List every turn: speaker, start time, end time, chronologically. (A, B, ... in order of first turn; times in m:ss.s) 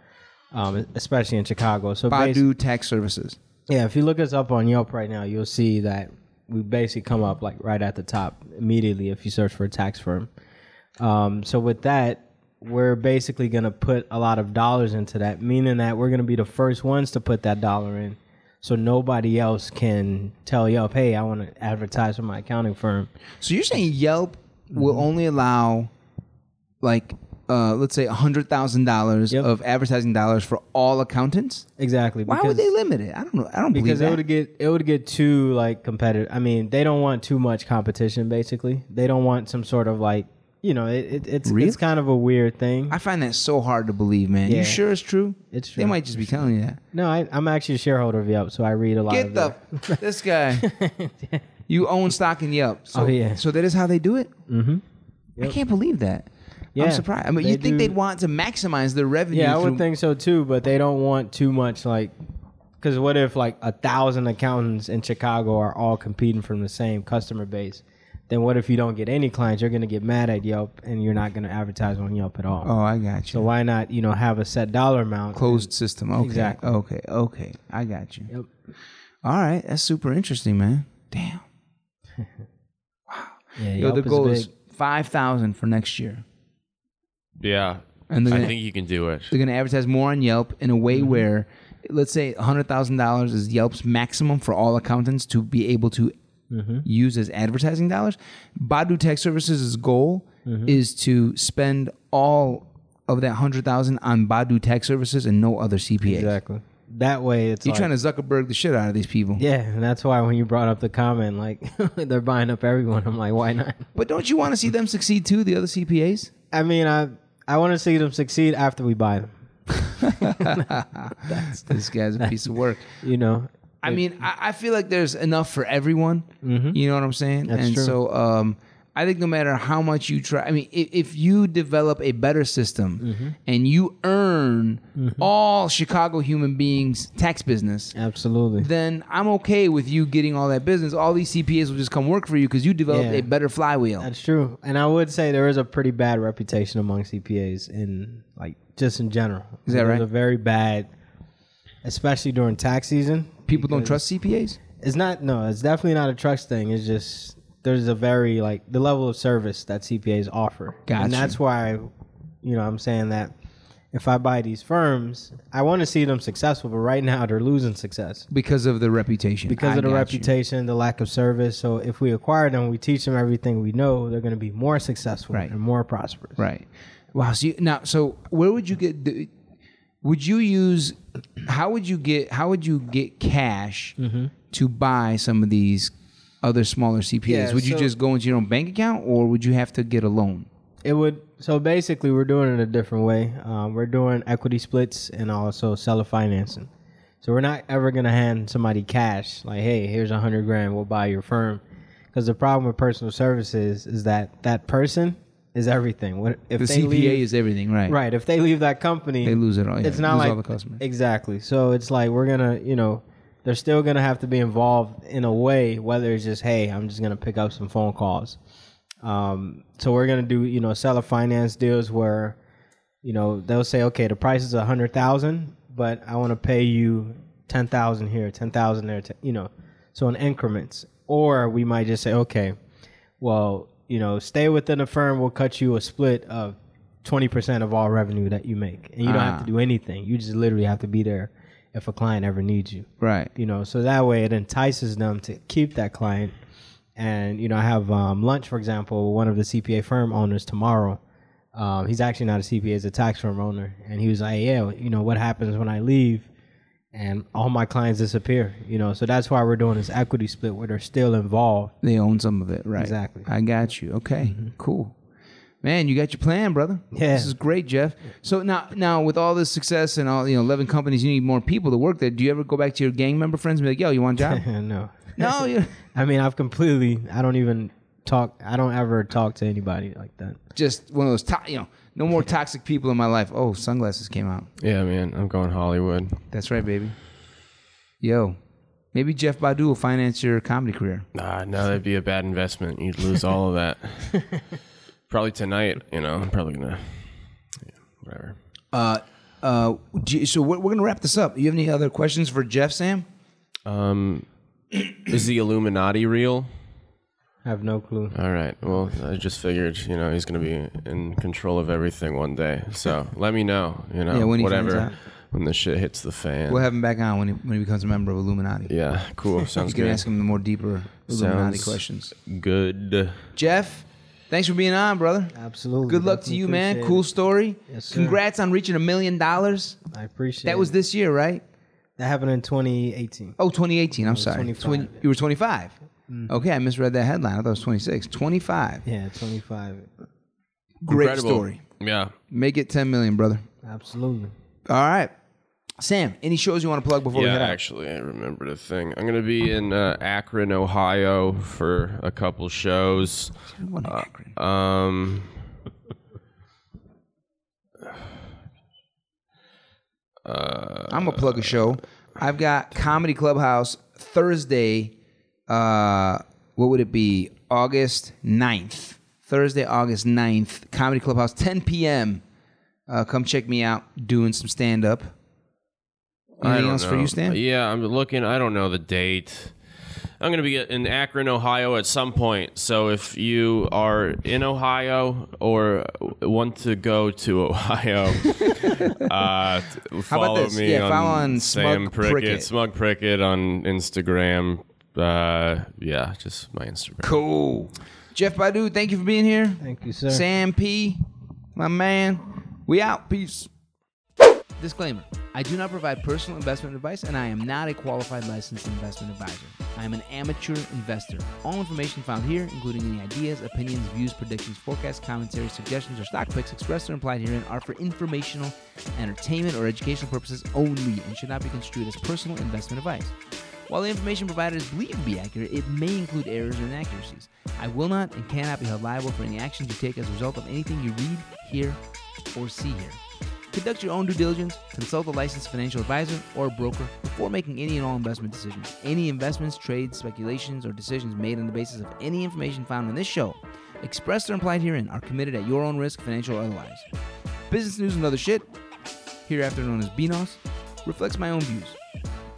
0:00.5-0:02.4 A
0:02.1-0:03.4 B
0:03.7-0:10.3 A
0:11.0-0:23.1 A
0:23.4-0:25.9 B
0:24.7-0:25.1 A
0:26.8-0:31.7 B
0:31.8-0:32.7 A
0:32.3-0:34.2 B
0:33.7-0:43.0 A
0:41.4-0:41.8 B
0:42.9-0:46.8 B
0:44.5-0:44.8 A
0:45.5-0:51.5 A
0:49.1-0:50.7 B
0:51.7-0:54.3 B
0:52.9-0:53.4 A
0:54.5-0:54.8 A
0:55.4-0:59.8 B
0:56.8-0:58.0 A
0:59.3-1:02.1 A
1:02.8-1:12.7 A
1:12.6-1:13.4 B
1:13.3-1:16.7 A
1:15.3-1:18.3 B
1:19.2-1:21.4 B
1:23.1-1:26.2 B
1:23.6-1:24.5 A
1:27.4-1:29.3 C
1:28.1-1:28.6 B
1:29.3-1:36.1 B
1:30.9-1:31.2 A
1:36.5-1:36.8 A
1:36.8-1:46.3 B
1:40.5-1:40.8 A
1:46.1-1:47.9 A
1:47.6-1:49.4 B
1:49.4-1:53.9 A
1:54.0-1:56.3 B
1:56.5-1:59.3 A
1:59.9-2:02.9 B
2:00.0-2:00.6 A
2:01.3-2:02.4 A
2:03.0-2:04.0 A
2:03.8-2:18.0 B
2:06.4-2:06.8 A
2:07.5-2:08.0 A
2:13.0-2:13.4 A
2:15.0-2:15.3 A
2:18.0-2:18.7 A
2:18.6-2:24.1 B
2:22.9-2:23.3 A
2:24.0-2:30.9 A
2:29.7-2:30.1 B
2:31.8-2:34.0 A
2:33.5-2:34.6 B
2:34.7-2:41.9 A
2:40.9-2:41.4 B
2:42.4-2:43.3 A
2:43.9-2:48.3 A
2:48.3-2:50.3 B
2:49.5-2:56.4 A
2:56.4-2:59.3 B
3:00.0-3:04.0 B
3:04.0-3:04.3 A
3:04.5-3:10.5 B
3:07.3-3:07.9 A
3:10.8-3:16.7 A
3:17.2-3:27.2 A
3:26.6-3:28.0 B
3:27.9-3:38.4 A
3:29.2-3:30.8 B
3:39.0-3:42.4 A
3:43.0-3:52.6 A
3:53.2-4:06.3 A
3:59.0-3:59.5 B
4:03.0-4:03.3 B
4:07.0-4:11.0 A
4:11.5-4:16.3 A
4:16.9-4:21.8 A
4:21.8-4:25.0 B
4:22.8-4:23.3 A
4:24.2-4:24.5 A
4:25.6-4:34.4 B
4:26.9-4:27.3 A
4:34.2-4:40.4 A
4:35.2-4:35.8 B
4:40.6-4:44.5 B
4:44.6-4:46.2 C
4:46.3-4:47.0 B
4:48.0-4:48.4 B
4:48.9-4:51.1 B
4:51.2-4:54.4 C
4:55.1-4:57.2 C
4:58.0-4:58.4 C
4:58.7-5:03.1 B
5:03.7-5:04.3 C
5:04.9-5:06.5 C
5:07.4-5:08.1 A
5:08.1-5:16.7 C
5:14.1-5:14.9 B
5:14.6-5:15.0 A
5:16.5-5:18.7 B
5:18.7-5:20.1 C
5:19.7-5:22.1 B
5:21.1-5:23.3 C
5:23.4-5:25.4 B
5:25.3-5:27.1 A
5:25.9-5:29.8 B
5:27.7-5:28.2 A
5:29.9-5:30.7 A
5:30.4-5:31.4 B
5:32.0-5:33.4 A
5:33.4-5:35.8 B
5:34.0-5:35.0 A
5:36.1-5:36.4 A
5:36.3-5:38.8 B
5:38.8-5:39.9 A
5:40.8-5:41.6 B
5:40.9-5:42.2 C
5:42.3-5:43.4 B
5:43.6-5:44.3 A
5:44.7-5:45.1 B
5:45.8-5:47.6 B
5:47.1-5:53.3 C
5:53.5-5:54.4 B
5:53.9-5:55.4 C
6:00.2-6:01.6 C
6:00.9-6:05.0 B
6:05.5-6:12.2 B
6:12.9-6:15.1 B
6:16.4-6:17.4 B
6:16.4-6:19.6 C
6:20.2-6:37.2 C
6:28.5-6:28.9 B
6:30.1-6:32.5 B
6:37.0-6:41.0 B
6:39.6-6:40.2 A
6:41.6-6:43.5 B
6:44.6-7:11.8 B
7:12.4-7:13.0 B
7:13.5-7:26.9 B
7:27.5-7:28.5 B
7:29.3-7:31.8 B